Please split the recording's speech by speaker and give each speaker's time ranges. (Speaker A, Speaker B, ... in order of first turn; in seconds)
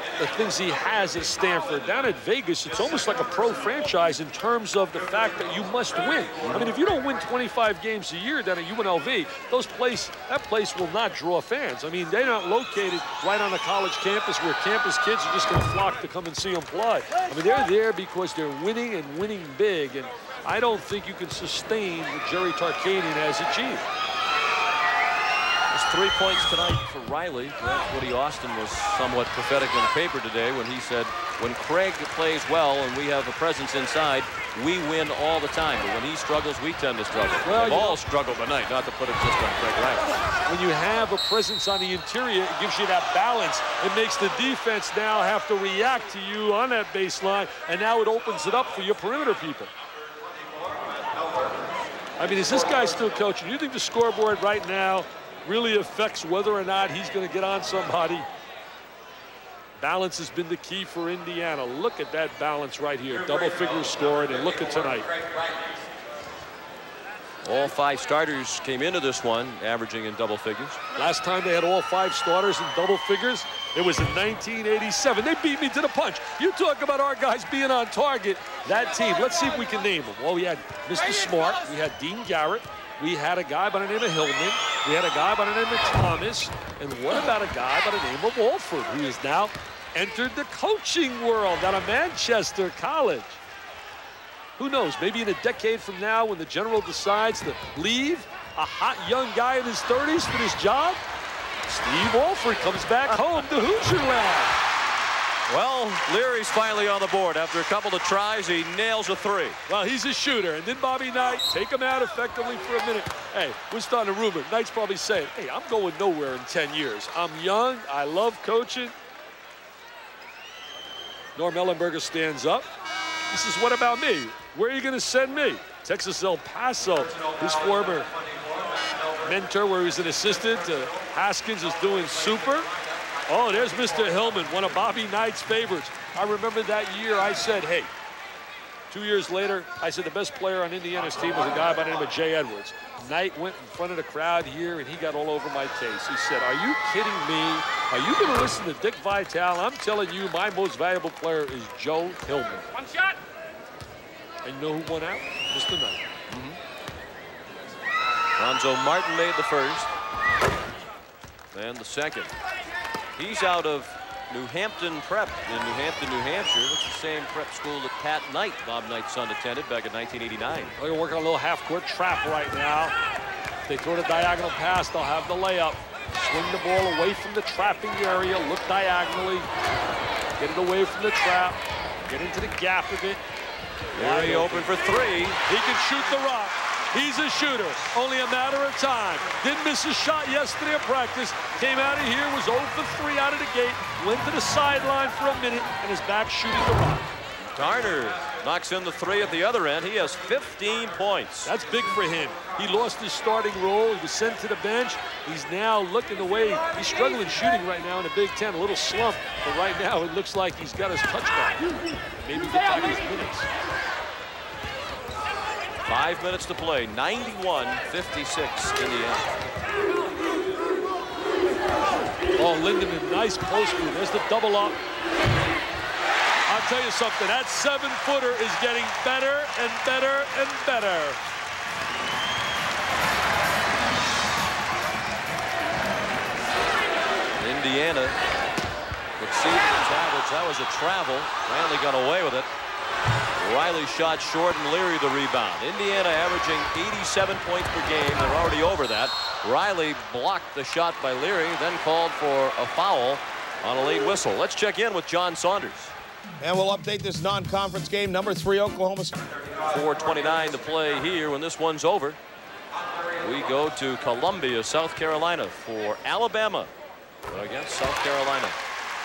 Speaker A: 0.2-23.8, 37.4-38.0, 40.4-49.7, 52.2-58.3, 59.8-65.1, 71.0-93.4, 94.6-101.0, 101.7-104.5, 109.7-118.9, 121.3-122.7, 123.3-128.1, 129.2-132.7, 133.3-137.9, 138.9-152.7, 154.4-156.0, 170.8-172.9, 173.7-179.5, 180.4-183.2, 183.9-184.8, 185.4-197.1, 201.4-213.5, 222.4-224.8, 226.5-231.2
Speaker B: 25.7-40.1, 67.4-70.8, 105.5-109.6, 156.3-156.6, 158.4-159.9, 161.5-162.3, 163.2-170.7, 183.9-185.4, 197.4-201.5, 215.8-219.3, 237.4-238.2, 239.2-242.5, 243.4-255.9, 259.7-262.2, 263.2-266.7, 267.2-268.6
Speaker C: 256.4-259.2